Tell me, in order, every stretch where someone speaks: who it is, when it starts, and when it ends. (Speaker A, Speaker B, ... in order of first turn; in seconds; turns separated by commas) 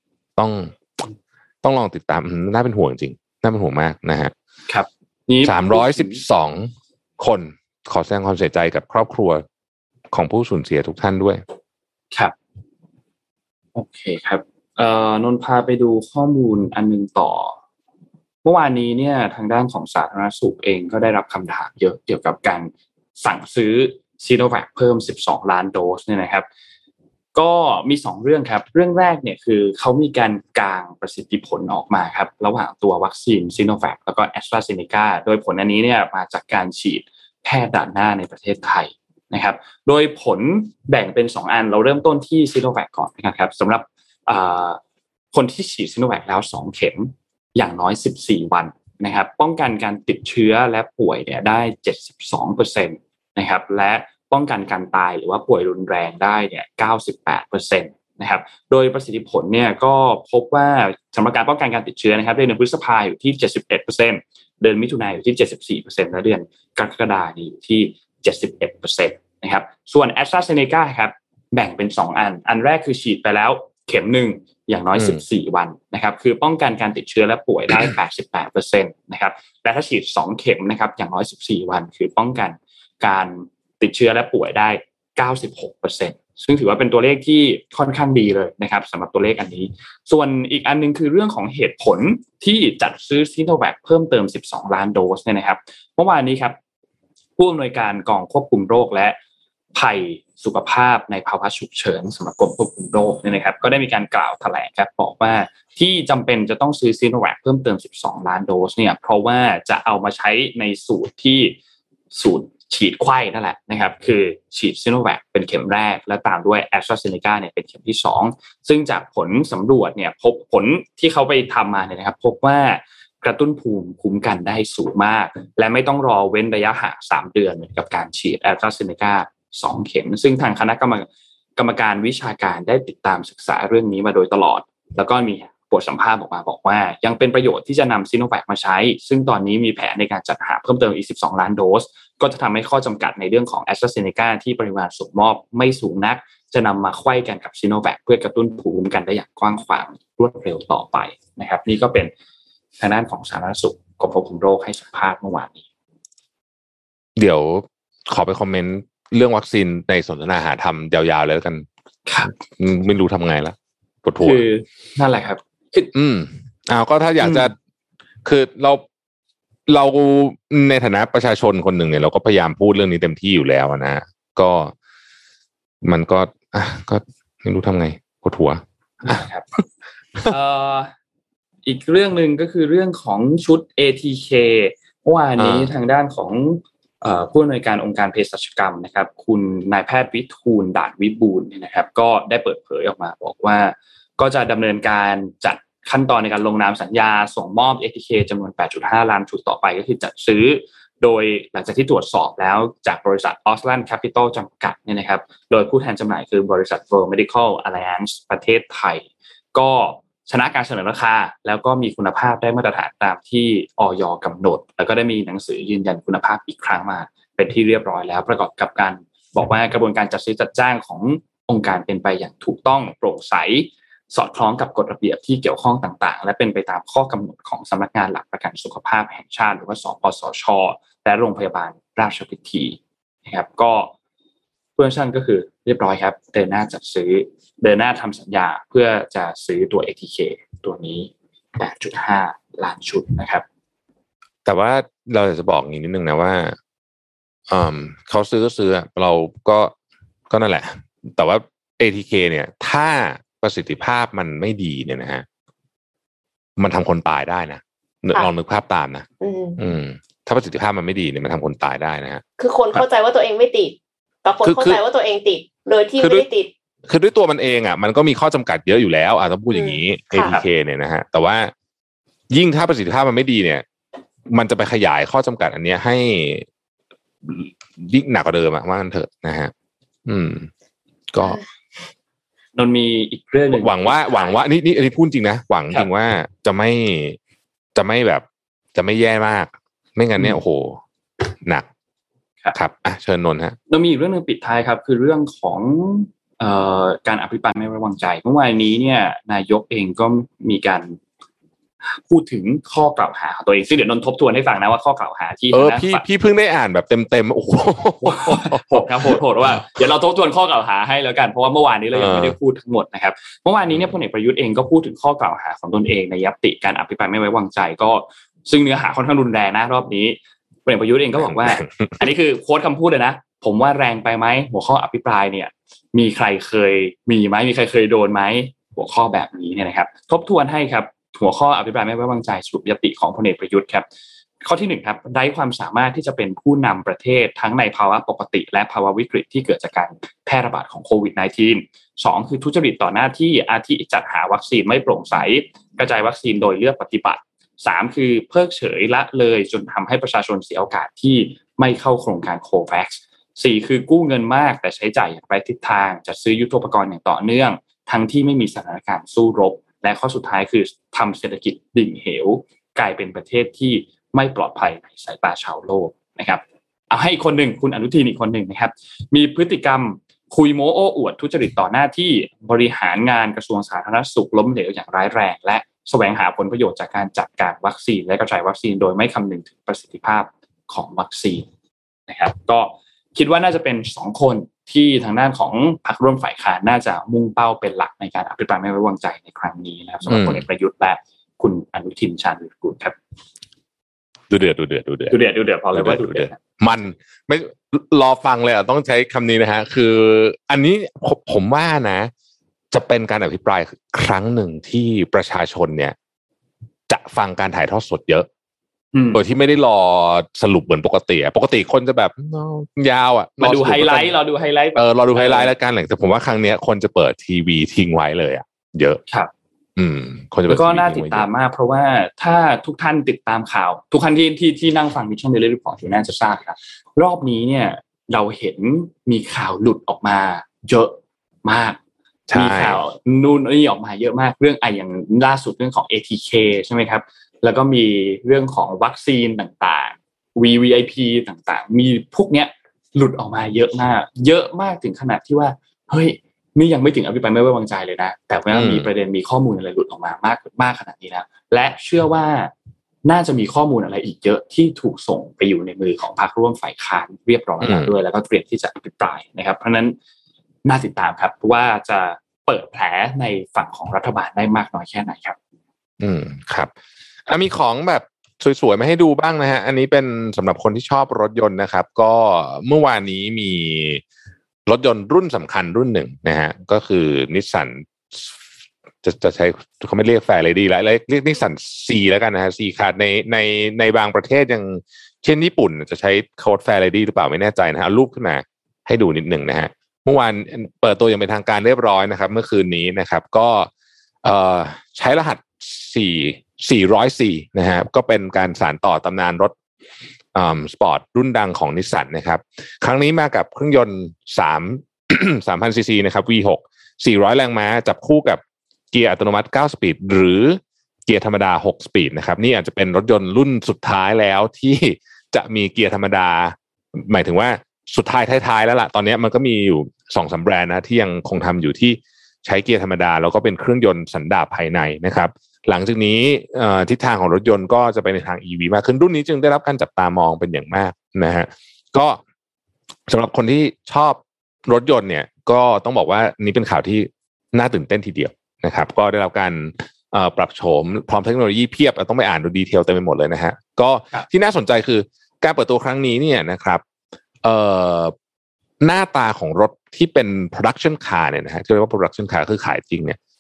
Speaker A: 0.4-0.8, Speaker A: 1.6-4.3, Speaker B: 4.7-6.2, Speaker A: 5.4-9.4, Speaker A: 10.1-11.4, Speaker B: 13.8-17.6, Speaker B: 18.4-26.5, Speaker B: 27.3-44.8, Speaker B: 45.3-96.6, Speaker B: 97.4-99.2, Speaker B: 99.7-111.6, Speaker B: 112.1-152.1, Speaker B: 152.8-155.6, Speaker A: 157.2-161.7, Speaker B: 162.1-162.3, Speaker A: 162.5-164.4, Speaker B: 164.2-165.9, Speaker A: 165.9-167.5, Speaker B: 167.2-167.5, Speaker A: 168.2-168.8, Speaker A: 169.7-174.7, Speaker A: 175.8-179.2, Speaker B: 179.0-179.6, Speaker B: 180.2-180.9, Speaker B: 181.7-233.9, Speaker A: 185.4-185.7, Speaker B: 234.8-243.4, Speaker A: 244.4-246.6, Speaker A: 247.5-249.7, Speaker A: 250.3-255.2, Speaker A: 256.6-259.1, Speaker C: 259.2-259.6, Speaker A: 259.6-262.2, Speaker C: 262.4-266.5, Speaker A: 264.4-264.8, Speaker A: 266.0-266.3, Speaker A: 266.9-271.5, Speaker C: 269.5-270.4, Speaker B: 270.2-270.5, Speaker A: 272.3-273.6, Speaker A: 274.3-276.5, Speaker A: 277.2-279.5, Speaker A: 280.1-280.5, Speaker A: 281.1-281.4, Speaker B: 282.6-284.4, Speaker A: 283.5-287.2, Speaker A: 287.8-290.8, Speaker A: 292.5-293.6, Speaker B: 293.7-301.0, Speaker B: 301.8-306.0, Speaker A: 305.5-309.8, Speaker B: 308.0-333.9, Speaker A: 311.9-312.4, Speaker A: 321.2-322.1, Speaker B: 334.4-381.5, Speaker B: 382.1-393.0, Speaker A: 390.1-390.4, Speaker A: 394.3-395.2, Speaker B: 395.1-396.4, Speaker A: 395.7-402.1, Speaker A: 402.7-405.9, Speaker A: 406.9-408.3, Speaker B: 408.9-409.2, Speaker A: 409.1-414.1, Speaker B: 413.4-415.5, Speaker A: 414.8-419.0, Speaker A: 419.8-421.3, Speaker B: 420.5-431.8, Speaker A: 432.3-432.8, Speaker B: 432.3-452.5, Speaker A: 448.5-448.9, Speaker B: 453.1-460.0, Speaker A: 457.6-457.9, Speaker B: 460.6-465.4, Speaker A: 466.0-466.7, Speaker A: 467.3-474.0, Speaker A: 474.7-478.4, Speaker A: 479.0-493.7, Speaker A: 494.2-499.6, Speaker A: 500.3-508.4, Speaker A: 508.9-532.2, Speaker A: 533.1-546.8, Speaker A: 547.4-548.1, Speaker A: 548.8-553.2